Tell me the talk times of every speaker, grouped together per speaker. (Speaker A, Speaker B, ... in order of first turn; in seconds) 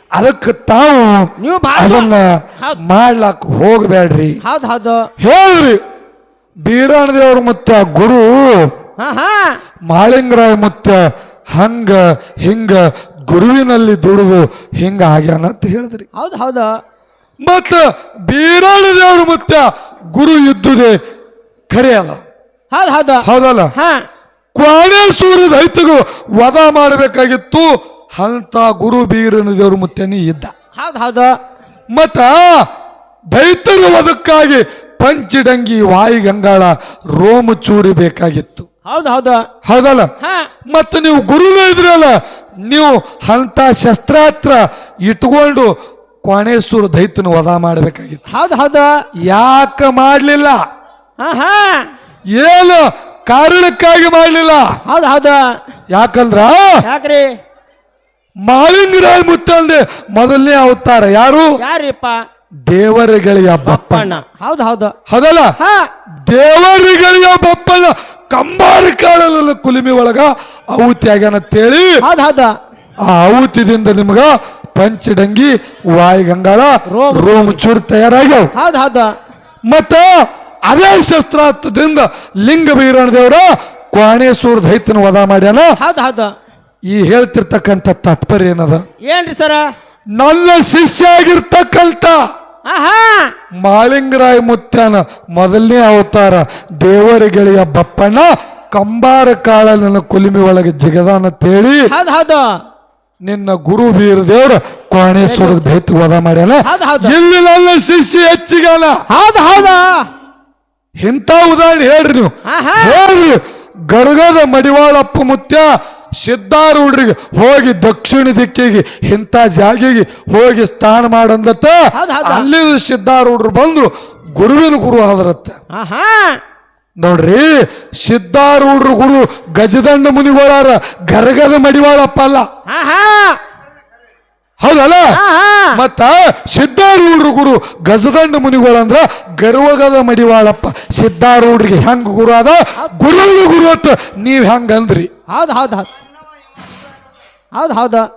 Speaker A: 0.1-4.4, 5.2-5.8, 6.6-8.7, 9.9-11.0, 11.5-16.1, 17.4-21.0, 21.7-22.2, 23.2-23.7, 24.6-30.5, 31.9-32.7, 33.3-38.7, 39.6-40.1, 40.7-45.7, 46.2-48.2, 49.2-50.6, 52.3-54.8, 55.9-56.8, 58.4-61.6, 62.7-64.2, 65.1-65.5, 66.3-72.0, 73.0-78.5, 79.7-85.7, 86.9-88.8, 90.2-92.2, 93.6-101.9, 103.2-109.0, 111.0-115.7, 116.2-125.6, 127.0-132.4, 134.6-135.1, 135.7-145.1
Speaker B: 1.4-2.1, 4.4-5.0, 9.0-9.5, 16.2-16.7, 22.7-23.9, 30.8-31.3, 38.9-39.4, 48.3-48.9, 51.2-51.8, 54.9-55.4, 56.9-57.2, 61.6-62.1, 63.7-64.9, 65.6-65.8, 72.0-72.5, 76.9-77.6, 78.5-79.1, 85.8-86.3, 89.0-89.6, 92.7-93.3, 101.9-102.5, 105.3-105.6, 106.7-107.1, 109.1-110.0, 112.5-112.9, 122.0-122.5, 125.7-126.3, 132.7-133.4, 135.1-135.8, 145.3-145.8, 147.6-148.1